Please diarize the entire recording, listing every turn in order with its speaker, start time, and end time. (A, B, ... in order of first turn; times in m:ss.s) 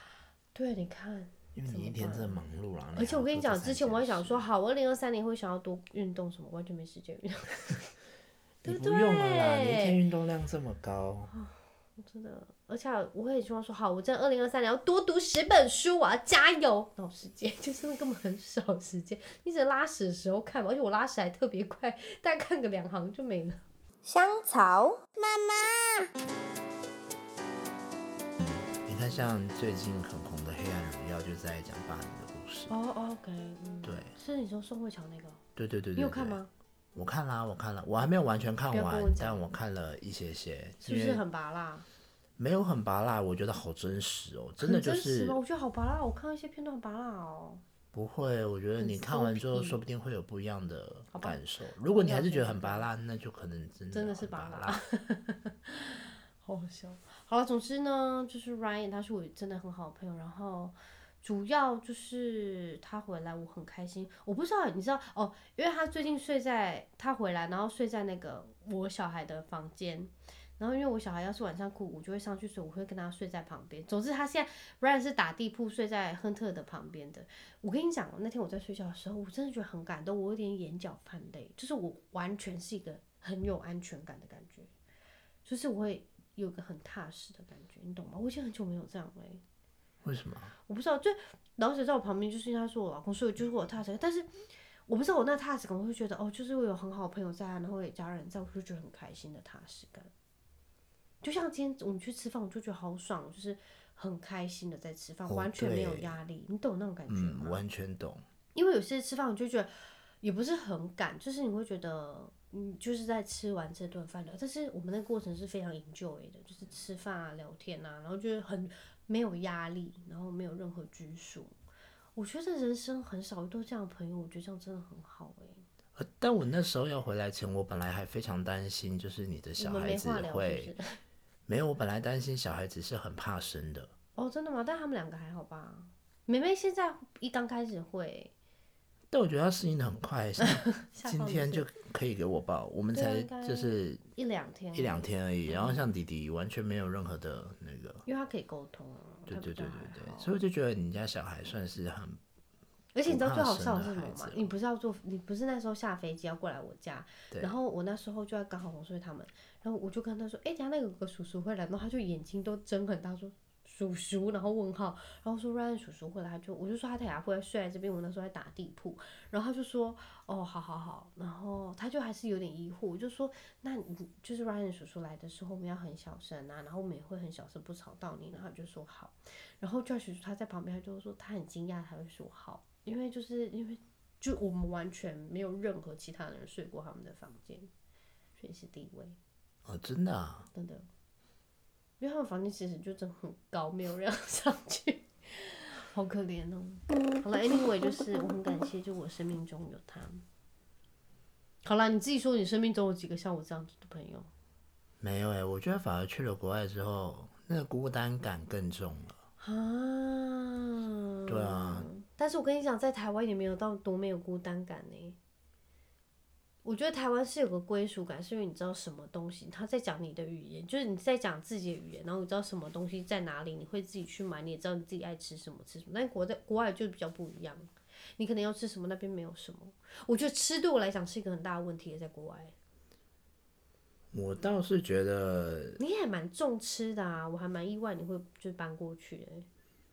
0:00.5-0:02.4 A
0:01.5-0:04.4 B
0:02.9-0:07.8 A
0:08.6-0:11.3 B
0:08.6-0:10.0 A
0:11.3-0:23.6 A
0:24.0-0:26.1 C
0:28.4-0:32.7 B
0:32.7-0:35.4 A
0:33.8-0:34.1 B
0:35.6-0:36.4 B
0:36.0-0:36.5 A
0:36.9-0:41.2 B
0:38.7-0:39.4 A
0:40.8-0:41.8 A
0:42.4-0:45.4 B
0:44.6-0:47.6 A
0:47.9-0:54.8 B
0:48.8-0:49.8 A
0:51.1-0:52.9 A
0:53.9-1:24.7 A
1:25.4-1:29.4 A
1:30.0-1:30.5 B
1:30.7-1:34.3 A
1:34.9-1:40.1 A
1:41.2-1:47.6 A
1:45.3-1:46.1 B
1:47.1-1:48.2 B
1:48.5-1:49.7 A
1:50.2-2:01.5 A
2:02.1-2:05.6 A
2:06.0-2:10.7 B
2:09.6-2:10.8 A
2:11.5-2:13.9 B
2:14.2-2:18.3 A
2:19.1-2:24.0 B
2:20.8-2:21.7 A
2:22.9-2:25.8 A
2:24.7-2:28.0 B
2:28.0-2:30.3 A
2:29.3-2:32.2 B
2:32.9-3:07.7 A
2:33.0-2:34.5 B
2:37.3-2:37.6 B
3:08.4-3:09.2 A
3:09.6-3:10.5 B
3:10.5-3:10.8 A
3:12.0-3:20.2 A
3:21.6-3:24.3 A
3:25.0-3:29.2 B
3:29.4-3:35.2 A
3:31.3-3:31.9 B
3:36.6-3:52.5 A
3:54.1-3:55.8 B
3:55.8-3:59.5 A